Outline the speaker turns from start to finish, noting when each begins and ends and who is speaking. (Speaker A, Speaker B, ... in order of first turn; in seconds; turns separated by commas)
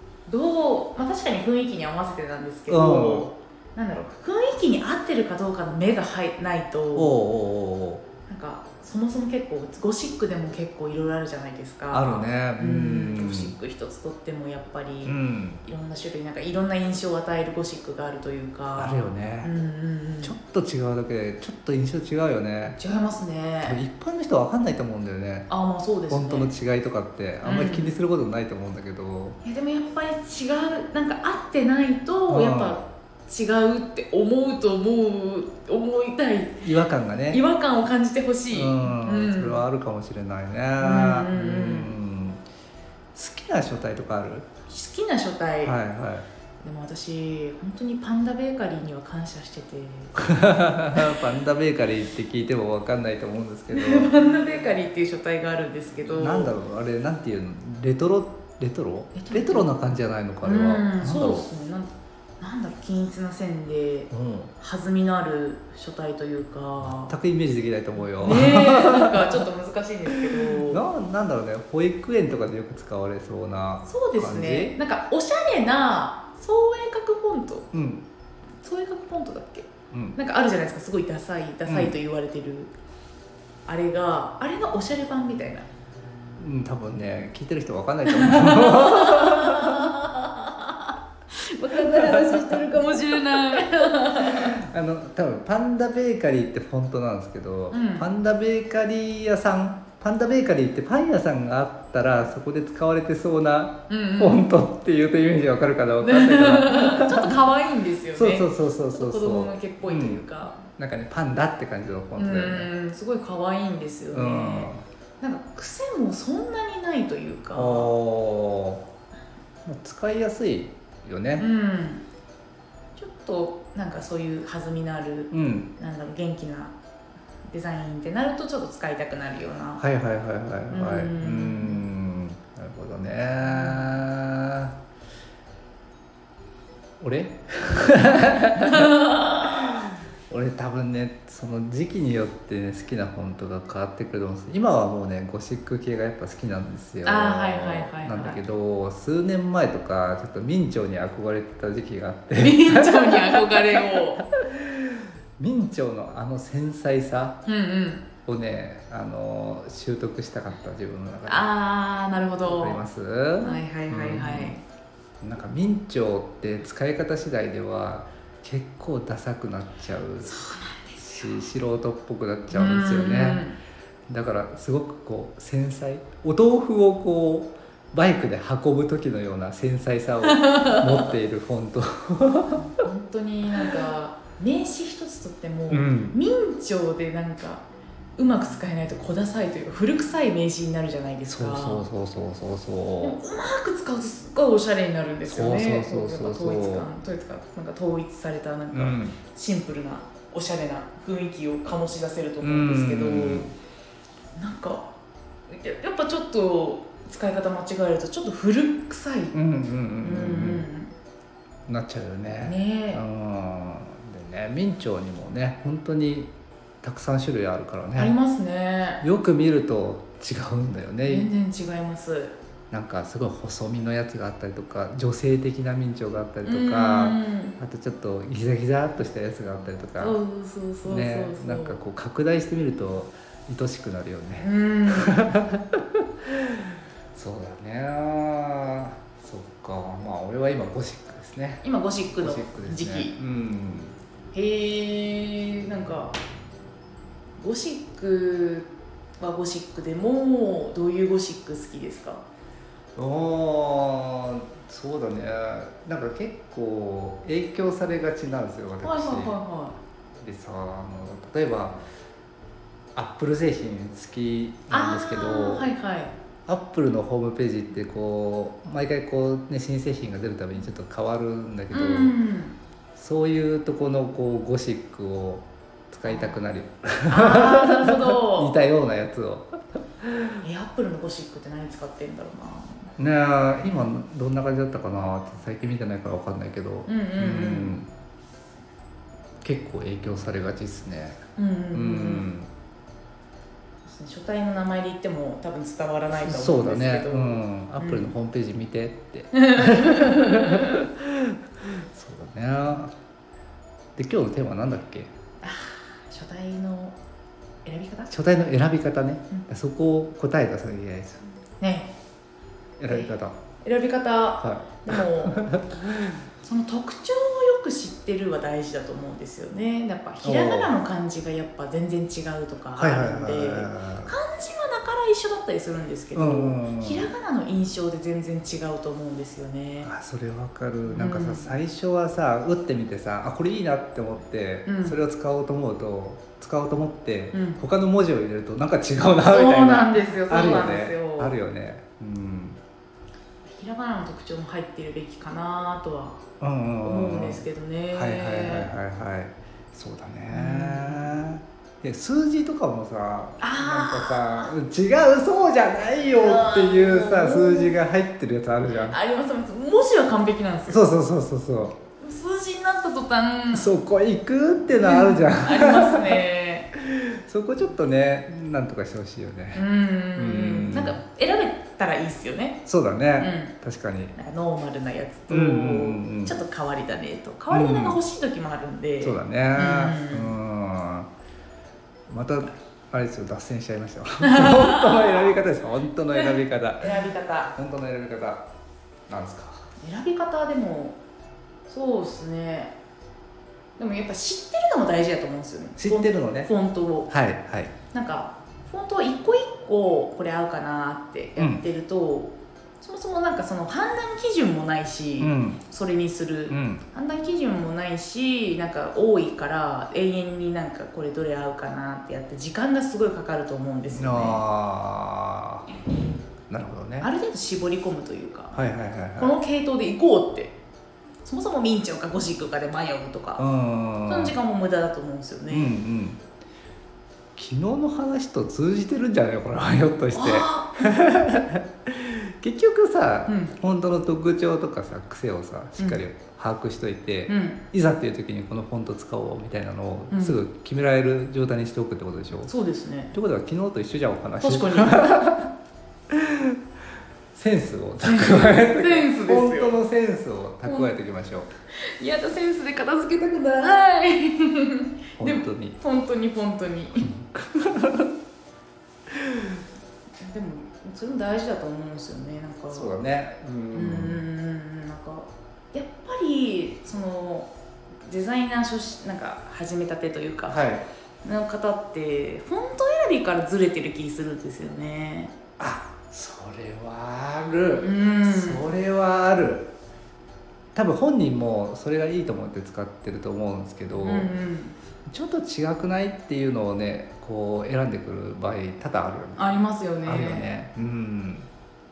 Speaker A: 0.3-7.2, Speaker B: 2.7-3.3, Speaker B: 6.9-8.0, Speaker A: 8.2-20.3, Speaker B: 11.9-13.5, Speaker B: 15.0-15.6, Speaker B: 18.8-19.5, Speaker B: 20.2-22.8, Speaker A: 22.7-23.8, Speaker B: 23.6-25.5, Speaker A: 25.5-26.5, Speaker B: 26.1-29.4, Speaker A: 27.4-27.9, Speaker A: 29.4-36.6, Speaker B: 32.3-32.8, Speaker B: 36.6-37.4, Speaker A: 37.3-39.6, Speaker B: 38.5-42.4, Speaker A: 40.8-41.9, Speaker B: 43.1-44.5, Speaker A: 44.7-45.7, Speaker B: 45.6-46.2, Speaker A: 46.6-51.2, Speaker B: 50.1-54.1, Speaker A: 53.7-56.5, Speaker B: 56.1-61.5, Speaker A: 59.1-59.7, Speaker A: 60.4-67.1, Speaker B: 64.1-64.5, Speaker B: 66.8-69.4, Speaker A: 68.2-70.8, Speaker B: 70.4-74.7, Speaker A: 73.8-77.7, Speaker B: 77.7-78.0, Speaker A: 78.6-82.7, Speaker B: 79.9-80.2, Speaker B: 81.7-81.9, Speaker A: 83.7-85.7, Speaker B: 86.4-90.0, Speaker A: 88.1-94.6, Speaker B: 91.7-92.6, Speaker B: 94.2-107.3, Speaker A: 97.7-98.1, Speaker A: 103.9-104.5, Speaker A: 106.0-110.6, Speaker B: 108.1-112.7, Speaker A: 112.2-117.9, Speaker B: 114.1-114.8, Speaker B: 117.5-118.9, Speaker B: 119.6-121.5, Speaker A: 121.4-122.0, Speaker A: 123.0-126.7, Speaker B: 125.3-125.7, Speaker A: 127.5-129.8, Speaker B: 129.8-134.7, Speaker A: 130.7-131.9, Speaker A: 133.4-134.0, Speaker B: 137.0-157.4, Speaker A: 138.7-139.8, Speaker A: 147.0-148.4, Speaker A: 152.4-154.2, Speaker A: 157.4-158.1, Speaker B: 158.2-161.5, Speaker A: 161.3-162.8, Speaker B: 162.4-164.5, Speaker A: 163.4-164.6, Speaker B: 165.2-170.4, Speaker A: 170.2-171.3, Speaker B: 171.0-173.4, Speaker A: 172.5-173.6, Speaker B: 174.1-182.7, Speaker A: 180.3-181.1, Speaker A: 182.6-187.6, Speaker B: 185.7-186.2, Speaker A: 188.2-191.8, Speaker B: 191.3-193.2, Speaker A: 193.0-203.5, Speaker B: 195.3-196.9, Speaker B: 198.7-199.2, Speaker B: 202.4-203.5, Speaker A: 204.3-204.9, Speaker A: 205.5-209.4, Speaker B: 209.3-210.6, Speaker A: 210.0-210.9, Speaker B: 211.7-216.3, Speaker A: 212.4-213.0, Speaker B: 216.8-218.1, Speaker A: 217.9-219.0, Speaker B: 219.0-221.3, Speaker A: 221.1-222.3, Speaker B: 222.7-230.2, Speaker A: 226.4-227.6, Speaker A: 230.0-231.8, Speaker B: 230.8-236.6, Speaker A: 234.4-235.3, Speaker B: 237.1-241.6, Speaker A: 241.6-243.1, Speaker B: 242.2-243.9, Speaker A: 244.3-246.1, Speaker A: 247.4-252.2, Speaker B: 252.9-259.4, Speaker A: 258.8-259.8, Speaker B: 260.2-261.8, Speaker B: 262.9-265.7, Speaker A: 264.7-266.1, Speaker B: 266.5-272.1, Speaker A: 271.7-272.6, Speaker B: 272.9-280.4, Speaker A: 276.1-276.4, Speaker A: 277.1-278.5, Speaker A: 280.4-282.9, Speaker B: 283.0-287.9, Speaker A: 286.9-287.8, Speaker B: 289.4-291.2, Speaker A: 291.4-292.3, Speaker B: 291.7-292.5, Speaker A: 293.8-298.1, Speaker B: 296.2-302.9, Speaker A: 299.3-300.8, Speaker B: 303.9-305.1, Speaker A: 305.4-306.9, Speaker A: 307.6-308.1, Speaker B: 308.1-311.2, Speaker A: 311.6-311.9, Speaker B: 312.8-313.4, Speaker A: 312.9-315.6, Speaker B: 314.4-316.1, Speaker A: 316.4-329.9, Speaker B: 320.2-320.8, Speaker B: 322.8-324.1, Speaker B: 326.1-327.1, Speaker B: 329.8-342.6, Speaker A: 330.9-331.5, Speaker A: 334.6-335.0, Speaker A: 337.3-337.6, Speaker A: 339.3-341.4, Speaker A: 343.4-346.2, Speaker B: 346.4-358.9, Speaker A: 346.8-348.7, Speaker A: 350.3-351.2, Speaker A: 353.4-354.5, Speaker A: 356.1-357.8, Speaker A: 358.7-360.8, Speaker B: 360.7-361.7, Speaker A: 362.0-363.7, Speaker B: 363.5-366.2, Speaker A: 364.7-366.7, Speaker B: 366.7-369.6, Speaker A: 369.5-372.6, Speaker B: 370.1-371.0, Speaker B: 372.6-374.1, Speaker A: 373.2-373.5, Speaker A: 374.1-380.3, Speaker B: 375.3-376.3, Speaker B: 377.5-378.0, Speaker B: 379.0-381.1, Speaker B: 382.1-387.0, Speaker A: 384.2-385.3, Speaker A: 386.1-387.5, Speaker B: 387.5-388.4, Speaker B: 389.1-389.7, Speaker A: 389.8-391.0, Speaker A: 391.7-392.7, Speaker A: 393.8-397.1, Speaker B: 395.8-396.5, Speaker B: 397.1-397.8, Speaker A: 397.9-414.4, Speaker B: 401.4-401.6, Speaker B: 405.2-405.6, Speaker B: 406.5-406.8, Speaker B: 413.9-415.7, Speaker B: 416.5-417.1, Speaker A: 417.0-418.6, Speaker B: 418.5-419.4, Speaker A: 419.1-420.6, Speaker A: 421.2-423.4, Speaker B: 423.4-424.3, Speaker A: 424.1-425.7, Speaker B: 425.5-426.2, Speaker B: 427.4-442.5, Speaker A: 430.1-431.1, Speaker A: 433.3-433.5, Speaker A: 435.8-436.0, Speaker A: 437.3-437.6, Speaker A: 440.1-440.4, Speaker A: 442.5-443.1, Speaker B: 443.1-445.5, Speaker A: 444.4-445.1, Speaker B: 446.1-446.6, Speaker B: 447.3-451.5, Speaker A: 448.0-449.8, Speaker A: 450.6-450.9, Speaker A: 451.7-457.1, Speaker B: 455.2-455.8, Speaker B: 457.0-458.1, Speaker B: 459.2-459.5, Speaker A: 460.2-462.9, Speaker B: 462.7-464.2, Speaker A: 463.7-467.5, Speaker A: 468.0-470.6, Speaker B: 470.5-470.8, Speaker A: 471.2-475.3, Speaker B: 475.6-479.7, Speaker A: 477.8-478.7, Speaker B: 480.7-484.3, Speaker A: 484.0-484.7, Speaker B: 485.1-489.4, Speaker A: 489.4-490.5, Speaker B: 490.0-491.5